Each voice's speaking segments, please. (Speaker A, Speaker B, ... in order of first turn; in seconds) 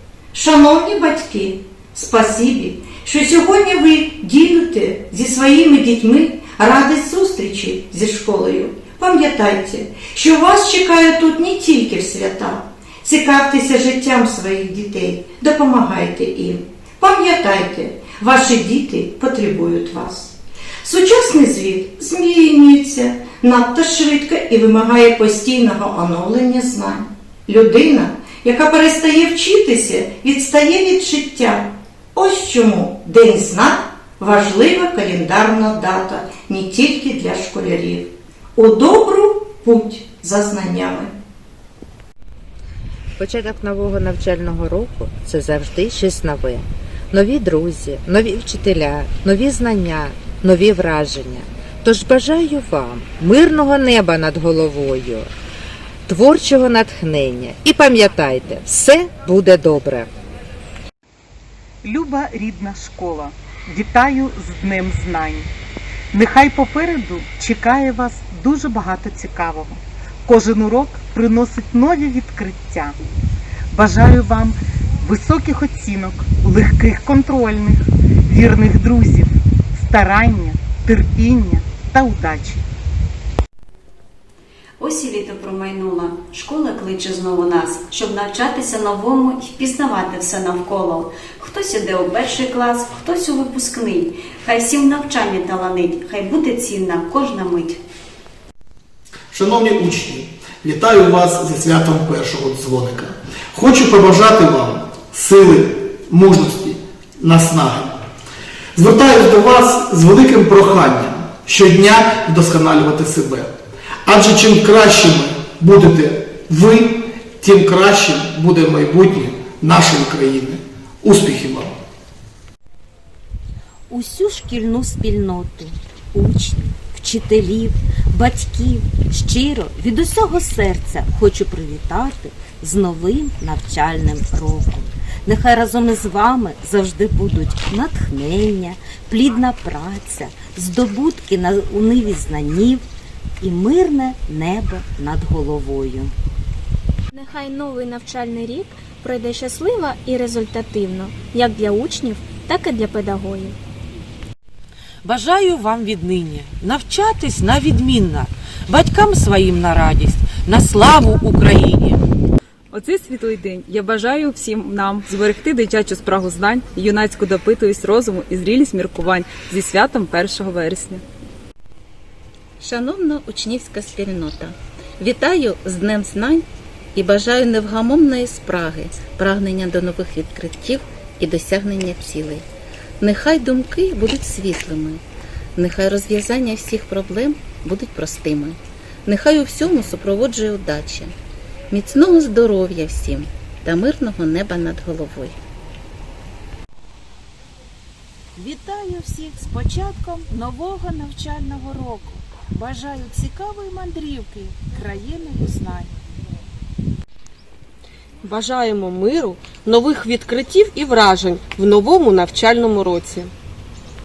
Speaker A: 0.3-41.2
Speaker B: 43.2-55.3, 56.1-60.1
Speaker C: 61.8-65.5, 66.1-72.9, 73.7-82.6
Speaker D: 84.8-97.8
Speaker E: 99.3-108.0, 108.8-113.5, 114.0-121.7
Speaker F: 123.9-142.7, 143.4-146.0, 198.4-205.8
Speaker G: 147.1-153.6
Speaker H: 155.1-162.0
Speaker I: 162.8-166.3, 167.0-171.0
Speaker J: 172.6-182.4, 183.0-185.0, 185.6-191.2, 191.7-195.4
Speaker K: 208.2-213.3